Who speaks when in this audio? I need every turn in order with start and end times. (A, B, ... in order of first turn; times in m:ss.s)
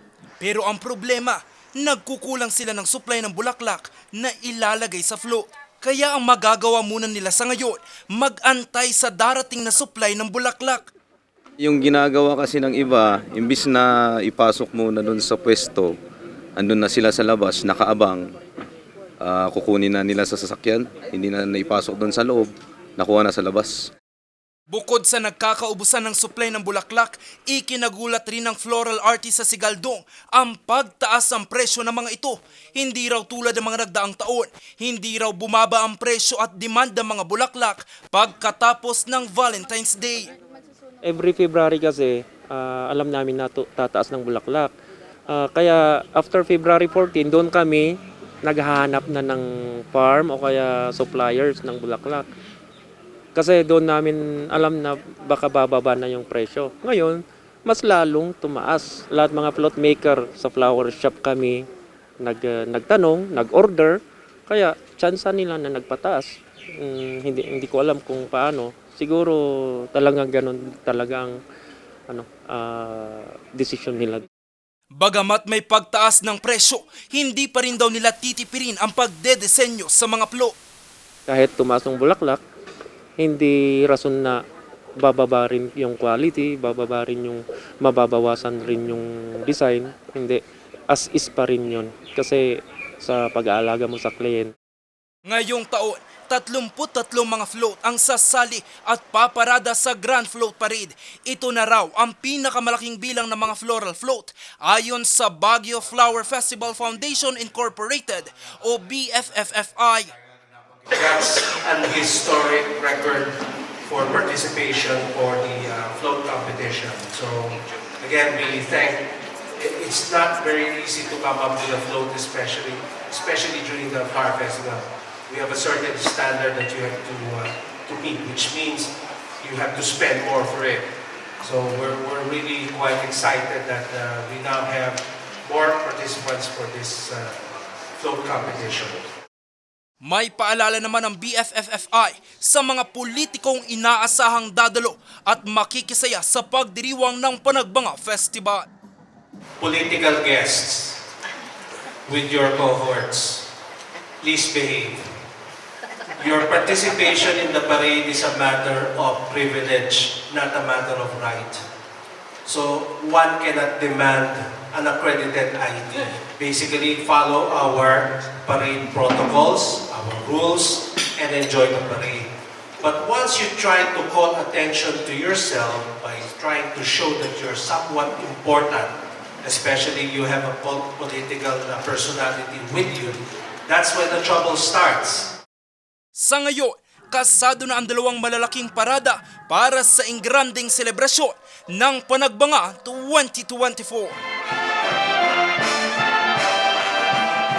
0:00.4-0:10.9 A
0:11.6-0:15.9 B
0:16.6-0:18.2 B
0:19.2-0:23.9 B
0:24.7-0:40.3 A
0:41.0-0:44.7 C
0:45.3-0:47.9 C
0:48.4-0:52.3 C
0:53.4-1:01.6 C
1:02.2-1:06.3 C
1:06.8-1:09.4 C
1:09.9-1:11.4 C
1:12.1-1:14.3 C
1:14.9-1:20.5 A
1:21.3-1:22.4 C
1:23.2-1:24.4 C
1:25.0-1:34.5 C
1:35.2-1:50.1 A
1:50.9-2:10.8 D
2:11.4-2:17.4 D
2:18.0-2:19.0 D
2:20.0-2:28.7 A
2:29.6-2:31.0 D
2:32.1-2:33.5 D
2:34.2-2:35.1 D
2:36.2-2:41.6 D
2:42.4-2:52.3 D
2:52.8-3:05.3 D
3:06.1-3:14.2 A